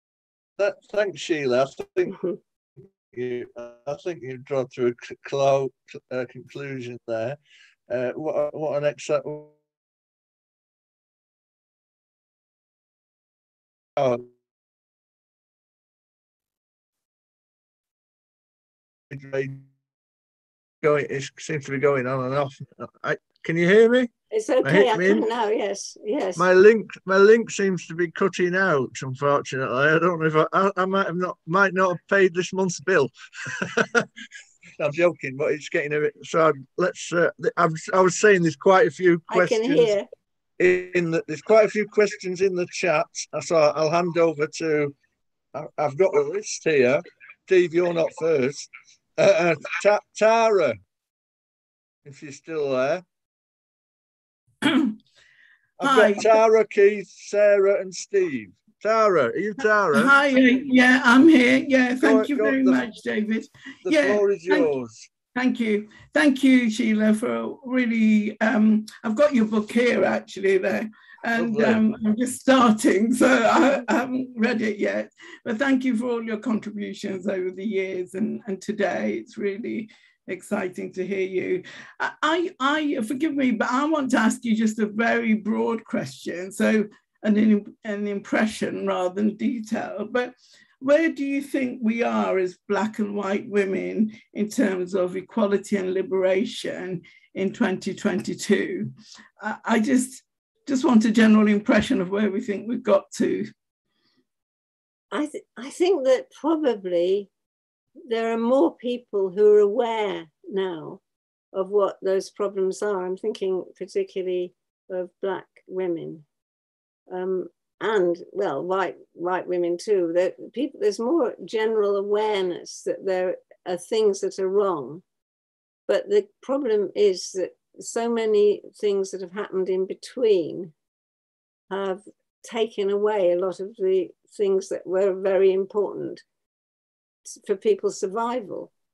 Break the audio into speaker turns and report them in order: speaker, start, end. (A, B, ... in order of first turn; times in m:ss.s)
0:00.6-0:02.2 A
0:03.1-0:07.4 A
0:07.9-0:09.5 A
0:14.0-0:14.2 A
0:19.1-0:19.6 A
0:20.8-0:24.1 A
0:24.3-0:26.4 B
0:24.6-0:25.2 A
0:26.4-0:34.1 A
0:34.8-0:39.9 A
0:39.3-0:40.1 B
0:40.6-0:44.9 A
0:45.5-0:50.8 A
0:52.0-0:53.0 A
0:54.6-0:55.0 C
0:55.8-1:00.2 A
0:55.8-0:56.4 C
0:59.9-1:04.7 C
1:02.0-1:02.8 A
1:03.8-1:05.1 A
1:05.4-1:43.5 C
1:11.3-1:11.9 A
1:45.1-1:47.3 B
1:48.1-1:51.0 B
1:51.5-1:56.2 B
1:57.1-2:05.0 B
2:05.9-2:10.7 B
2:11.7-2:16.2 B
2:17.3-2:18.7 B